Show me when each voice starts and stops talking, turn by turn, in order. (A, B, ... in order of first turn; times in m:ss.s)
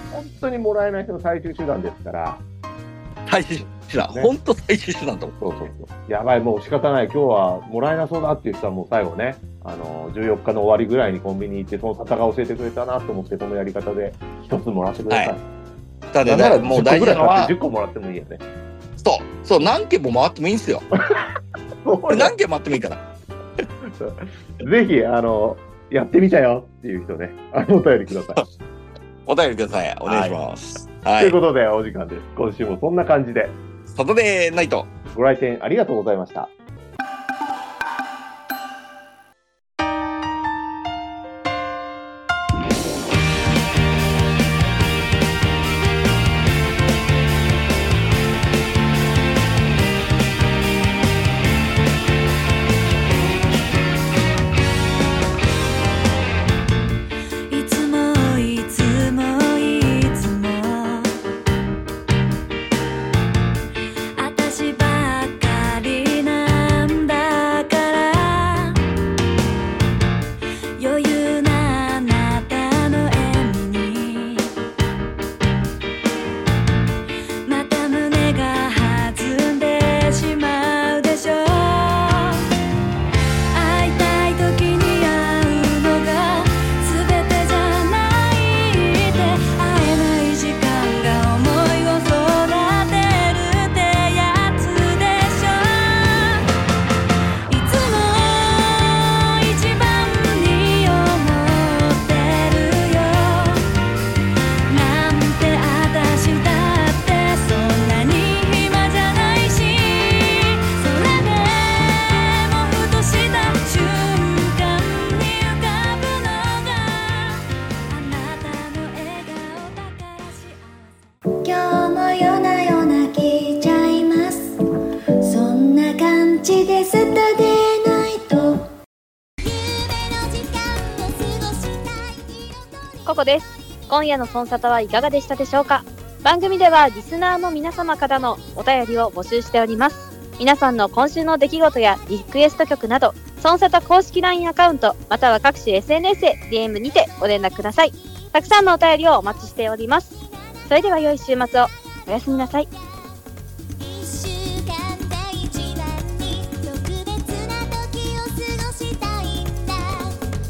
0:00.1-0:02.4 A
0:03.3-0:05.4 B
0:05.4-0:15.4 A
0:16.1-0:17.5 B
0:16.2-0:18.4 A
0:19.0-0:20.9 B
0:21.8-0:22.3 A
0:22.1-0:23.0 B
0:23.9-0:28.4 A
0:29.3-0:31.4 B
0:30.1-0:30.4 A
0:31.2-0:33.6 A
0:33.9-0:34.9 B
0:35.1-0:36.5 A
0:57.5-1:01.1 C
1:04.2-1:08.8 C
1:10.8-1:14.5 C
1:17.5-1:22.4 C
1:23.5-1:36.4 C
1:37.5-1:43.6 C
1:44.7-2:04.5 C
2:05.3-2:08.6 C
2:09.4-2:13.2 D
2:13.1-2:30.1 E
2:27.9-2:28.6 D
2:30.7-2:32.7 E
2:33.8-2:40.2 D